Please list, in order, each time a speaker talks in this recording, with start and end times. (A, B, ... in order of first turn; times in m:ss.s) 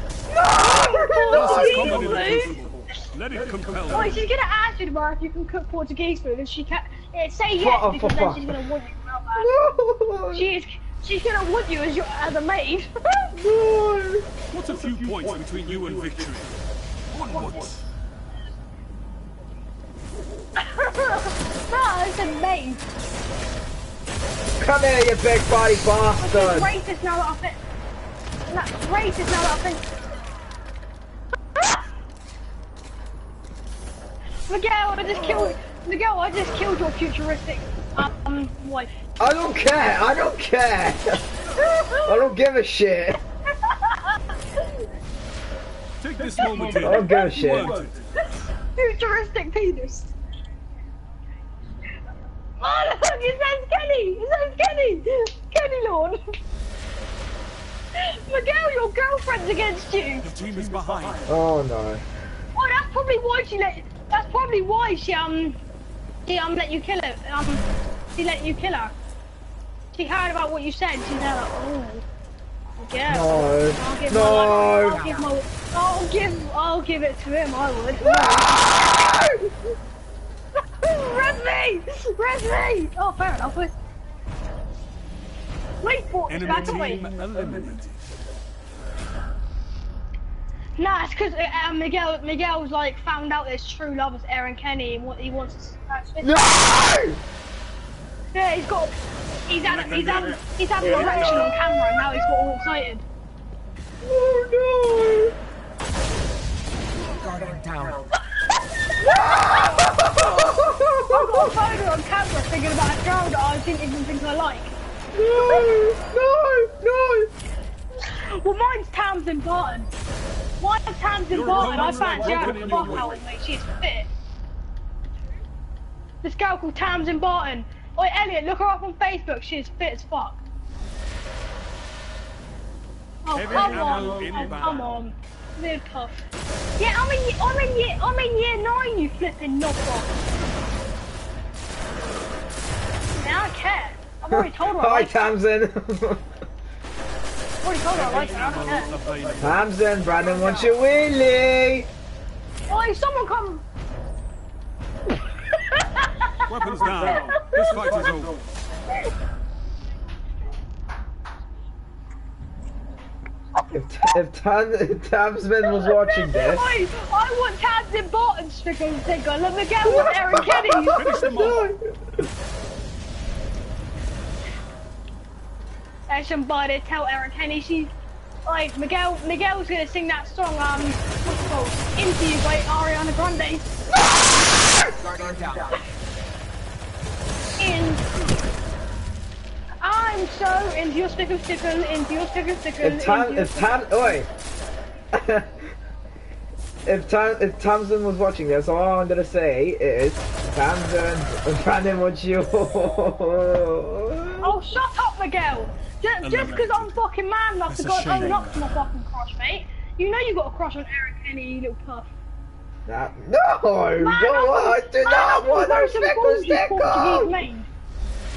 0:00.3-0:01.9 A
0:00.4-0:02.6 B
0:01.3-0:04.2 C
0:03.9-0:09.5 B
0:07.6-0:08.6 A
0:09.4-0:10.5 A
0:10.3-0:13.3 B
0:13.4-0:14.3 A
0:14.5-0:16.6 C
0:17.1-0:17.8 C
0:17.3-0:17.7 B
0:20.6-0:22.8 B
0:24.6-0:26.7 A
0:26.2-0:27.6 B
0:28.5-0:29.9 B
0:34.5-0:39.0 B
0:39.2-0:41.2 A
0:41.6-0:42.2 B
0:42.0-0:43.2 A
0:43.6-0:44.8 B
0:46.0-0:48.0 C
0:46.6-0:47.0 B
0:46.8-0:47.8 A
0:48.2-0:50.1 B
0:52.6-0:56.2 B
0:58.0-1:00.3 B
1:00.2-1:01.2 C
1:01.3-1:02.0 A
1:02.5-1:05.6 B
1:06.3-1:07.6 B
1:08.2-1:08.9 B
1:09.9-1:12.0 B
1:12.8-1:18.7 B
1:13.1-1:15.1 A
1:14.9-1:15.2 D
1:18.0-1:19.5 A
1:20.8-1:23.8 B
1:25.8-1:27.1 B
1:26.3-1:28.1 C
1:30.8-1:36.5 B
1:36.2-1:37.2 A
1:38.3-1:38.9 B
1:39.5-1:43.0 B
1:39.6-1:41.6 C
1:44.0-1:45.3 A
1:47.1-1:48.1 D
1:48.9-1:50.1 B
1:49.0-1:51.5 A
1:51.0-1:54.7 B
1:55.1-1:57.3 A
1:55.4-1:55.6 B
1:58.0-1:59.9 B
2:00.6-2:04.1 B
2:01.3-2:03.2 C
2:06.2-2:10.4 B
2:13.2-2:16.2 B
2:13.3-2:14.9 C
2:16.8-2:20.1 B
2:23.2-2:25.3 B
2:24.3-2:26.3 A
2:27.6-2:29.0 B
2:28.0-2:29.7 C
2:29.4-2:31.9 A
2:32.7-2:33.6 B
2:35.5-2:38.1 B
2:36.5-2:38.4 C
2:43.7-2:46.7 A
2:45.8-2:51.2 B
2:49.8-2:51.8 A
2:50.9-2:51.7 C
2:56.1-2:57.9 B
2:58.4-3:03.7 B
3:05.0-3:05.8 D
3:07.6-3:08.0 B
3:09.8-3:14.0 B
3:12.8-3:14.3 A
3:15.1-3:15.7 A
3:16.9-3:24.6 A
3:24.4-3:32.1 B
3:26.2-3:27.0 C
3:27.7-3:28.6 C
3:32.9-3:37.4 A
3:34.0-3:37.7 B